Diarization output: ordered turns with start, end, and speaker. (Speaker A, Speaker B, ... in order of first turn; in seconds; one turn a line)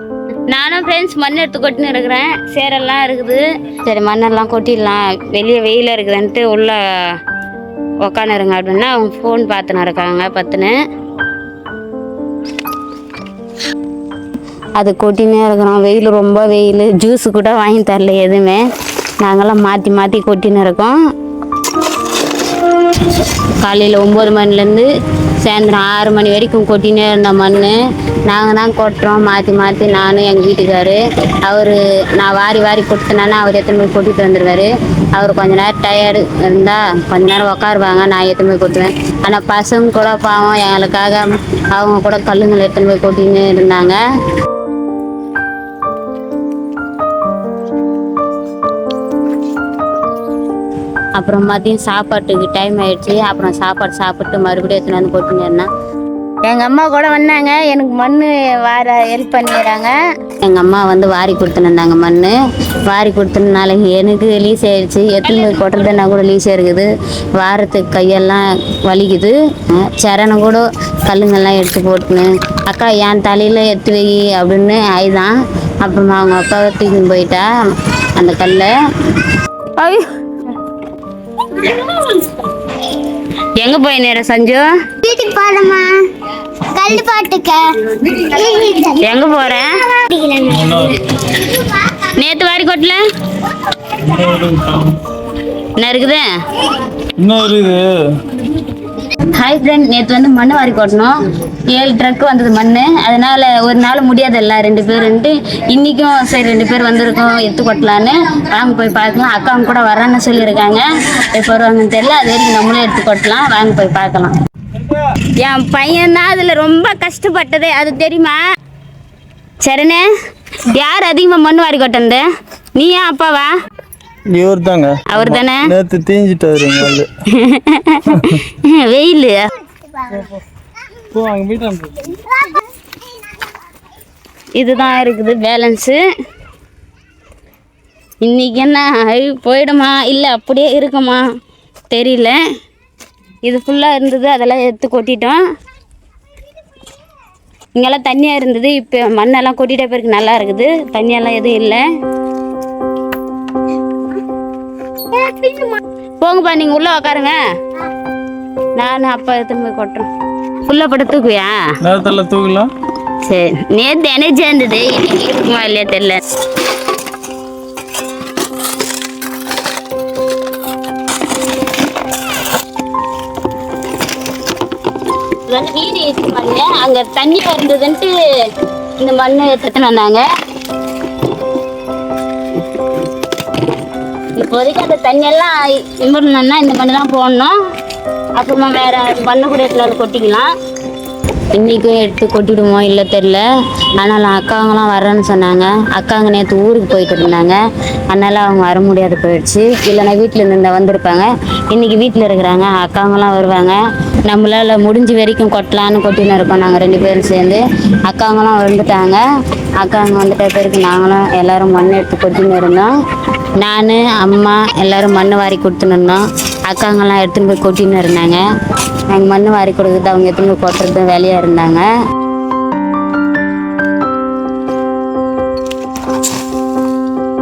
Speaker A: 0.5-7.2
Speaker A: 8.0-10.8
Speaker A: 14.8-18.7
Speaker A: 19.2-21.0
Speaker A: 23.6-24.9
Speaker A: 25.4-44.0
Speaker A: 51.2-55.7
Speaker A: 56.5-62.4
Speaker A: 62.9-77.5
Speaker A: 78.2-78.7
Speaker A: 79.8-80.1
Speaker A: 81.6-81.9
Speaker A: 83.6-85.1
Speaker B: 85.1-86.1
Speaker B: 86.8-89.0
Speaker A: 86.8-87.3
Speaker A: 88.9-90.3
Speaker B: 90.1-90.5
Speaker C: 90.5-91.2
Speaker A: 91.6-93.0
Speaker C: 94.0-95.0
Speaker A: 95.8-96.7
Speaker C: 97.2-98.1
Speaker A: 99.2-114.3
Speaker A: 115.4-118.4
Speaker A: 119.6-120.1
Speaker A: 120.7-122.2
Speaker A: 122.8-123.5
Speaker C: 124.3-127.1
Speaker A: 125.1-125.7
Speaker A: 127.3-129.5
Speaker C: 128.1-128.4
Speaker C: 131.1-132.2
Speaker A: 134.6-136.0
Speaker A: 138.2-141.2
Speaker A: 141.9-142.4
Speaker A: 143.4-145.4
Speaker A: 147.8-151.8
Speaker A: 155.2-157.4
Speaker A: 158.8-160.1
Speaker A: 160.7-161.7
Speaker C: 161.8-162.7
Speaker A: 163.2-166.2
Speaker A: 175.5-178.1
Speaker A: 179.0-180.2
Speaker A: 184.3-187.6
Speaker A: 188.4-190.5
Speaker A: 191.5-193.4
Speaker A: 194.0-197.6
Speaker A: 198.1-209.2
Speaker A: 209.8-212.9
Speaker A: 213.6-218.4
Speaker A: 219.1-221.9